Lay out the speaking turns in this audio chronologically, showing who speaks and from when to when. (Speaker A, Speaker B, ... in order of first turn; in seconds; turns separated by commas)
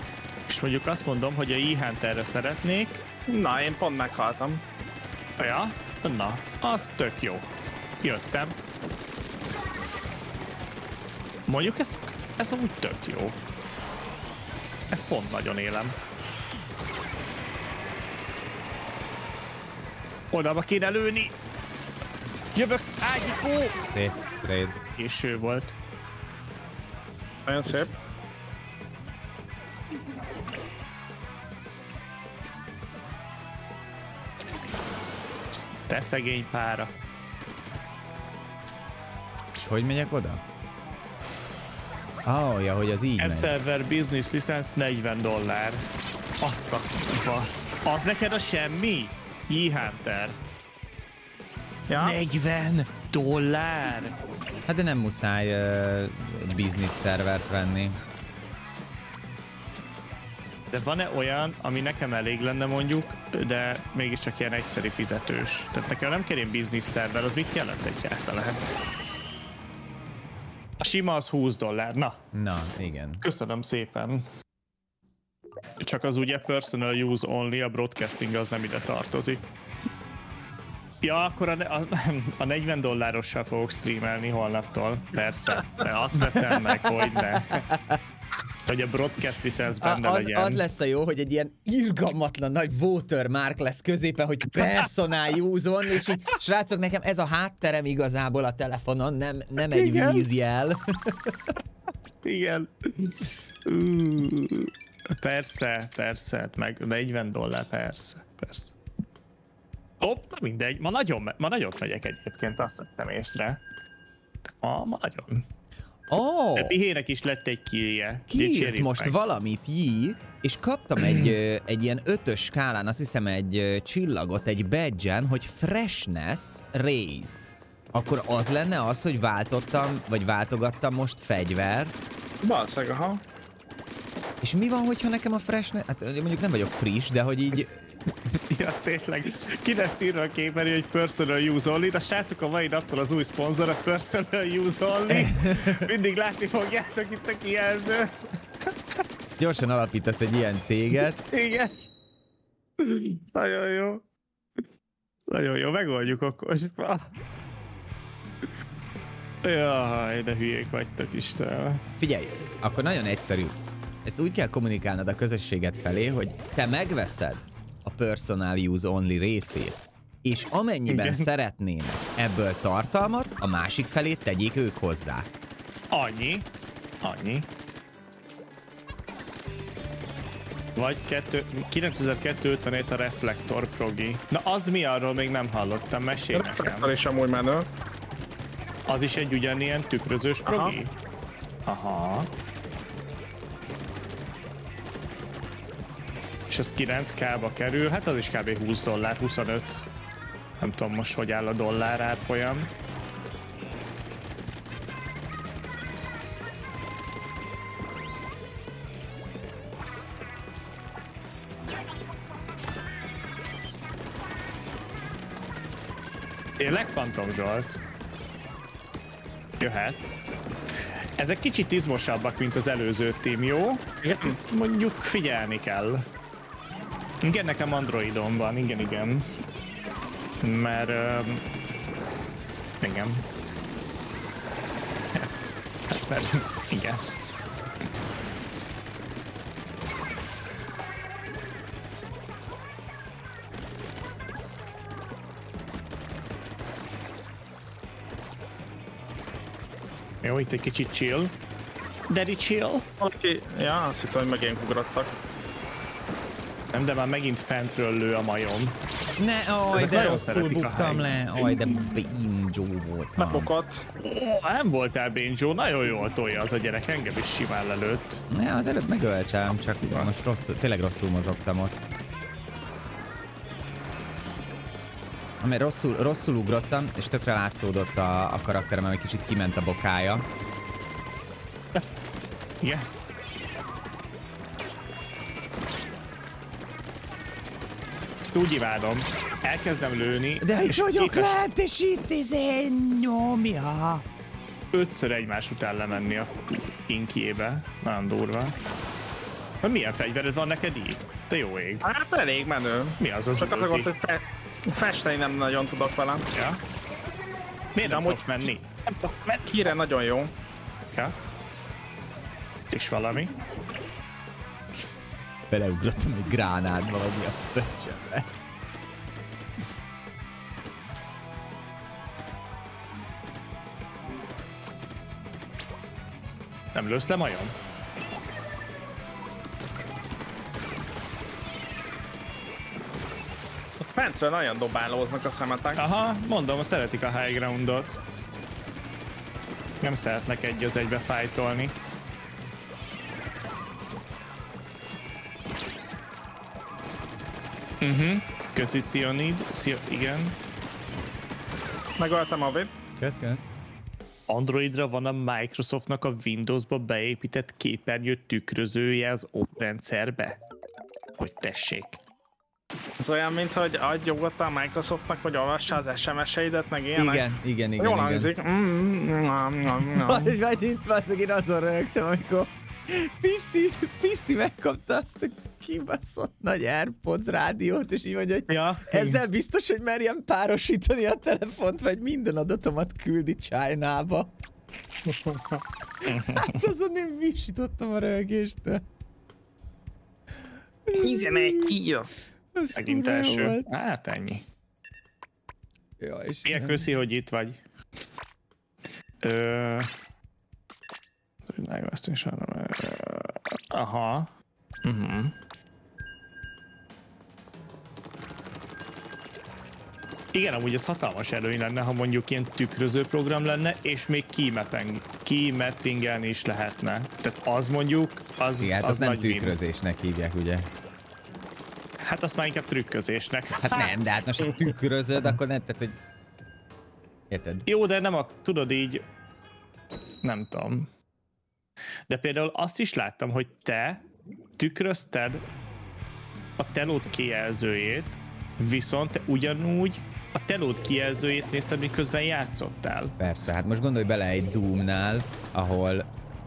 Speaker A: 0.5-3.0, Speaker B: 3.3-4.6, Speaker A: 5.4-7.5, Speaker A: 8.0-8.6, Speaker A: 11.5-13.4, Speaker A: 14.9-15.9, Speaker A: 20.3-21.3, Speaker A: 22.5-23.8, Speaker C: 23.9-24.8, Speaker A: 24.9-25.7, Speaker B: 27.4-27.9, Speaker A: 35.5-36.9, Speaker C: 39.5-40.4, Speaker C: 42.2-43.5, Speaker A: 43.2-45.8, Speaker A: 46.4-50.4, Speaker B: 51.9-52.2, Speaker A: 52.0-54.2, Speaker C: 54.7-58.0, Speaker A: 60.7-68.6, Speaker A: 70.8-72.2, Speaker C: 72.3-73.2, Speaker A: 73.2-74.2, Speaker A: 75.8-79.4, Speaker A: 81.0-87.7, Speaker C: 86.4-88.0, Speaker A: 88.6-90.6, Speaker C: 89.8-101.5, Speaker A: 99.7-100.2, Speaker A: 102.2-108.8, Speaker A: 110.0-113.6, Speaker A: 114.5-115.4, Speaker C: 116.1-116.8, Speaker A: 116.5-119.2, Speaker C: 118.3-132.0, Speaker A: 121.0-121.3, Speaker B: 132.4-133.2, Speaker C: 134.4-138.0, Speaker A: 138.5-148.1, Speaker C: 145.1-145.9, Speaker C: 149.4-151.2, Speaker A: 151.3-151.7, Speaker A: 152.8-154.0, Speaker A: 155.3-157.1, Speaker A: 159.4-161.8, Speaker C: 162.0-175.3, Speaker A: 170.9-171.3, Speaker A: 175.9-176.5, Speaker A: 177.0-177.5, Speaker A: 180.8-186.9, Speaker B: 186.3-187.7, Speaker A: 188.9-190.9, Speaker B: 190.4-190.8, Speaker A: 191.7-192.3, Speaker A: 196.5-199.8, Speaker A: 200.6-202.7, Speaker A: 216.6-217.8, Speaker A: 219.6-220.1, Speaker A: 220.8-226.0, Speaker A: 227.2-229.3, Speaker A: 230.4-231.4, Speaker A: 232.8-233.2, Speaker A: 235.9-237.1, Speaker A: 250.2-251.3, Speaker A: 252.1-252.8, Speaker B: 253.0-255.1, Speaker A: 256.7-258.7, Speaker C: 259.2-263.5, Speaker A: 259.7-261.2, Speaker B: 263.2-263.8, Speaker A: 264.0-268.2, Speaker C: 268.3-271.8, Speaker C: 275.4-280.2, Speaker A: 282.6-282.9, Speaker A: 288.2-291.4, Speaker C: 290.4-294.0, Speaker A: 294.7-298.6, Speaker A: 299.6-301.9, Speaker B: 301.8-306.3, Speaker A: 303.0-303.9, Speaker A: 306.3-306.6, Speaker A: 307.7-309.5, Speaker B: 307.8-308.5, Speaker B: 309.4-310.3, Speaker A: 312.7-313.3, Speaker C: 315.5-318.3, Speaker A: 326.7-327.5, Speaker B: 333.8-335.8, Speaker A: 335.8-337.9, Speaker A: 339.8-341.7, Speaker A: 347.8-350.3, Speaker B: 352.0-352.7, Speaker C: 353.0-353.5, Speaker A: 354.3-360.4, Speaker A: 361.2-362.0, Speaker B: 363.0-370.3, Speaker C: 366.9-368.3, Speaker C: 369.9-384.3, Speaker A: 378.5-379.2, Speaker B: 385.1-385.4, Speaker C: 386.1-388.8, Speaker A: 386.1-386.6, Speaker C: 390.9-391.7, Speaker B: 391.0-392.1, Speaker C: 392.5-393.6, Speaker A: 392.7-394.4, Speaker C: 396.0-396.9, Speaker A: 396.4-397.6, Speaker A: 399.2-399.9, Speaker A: 401.5-404.3, Speaker A: 404.8-405.3, Speaker A: 410.3-419.6, Speaker C: 418.6-420.7, Speaker A: 422.0-423.9, Speaker C: 423.6-426.0, Speaker C: 427.3-427.6, Speaker A: 427.6-429.0, Speaker A: 430.2-430.9, Speaker A: 432.1-434.0, Speaker A: 434.6-435.4, Speaker A: 436.6-443.1, Speaker C: 443.2-446.1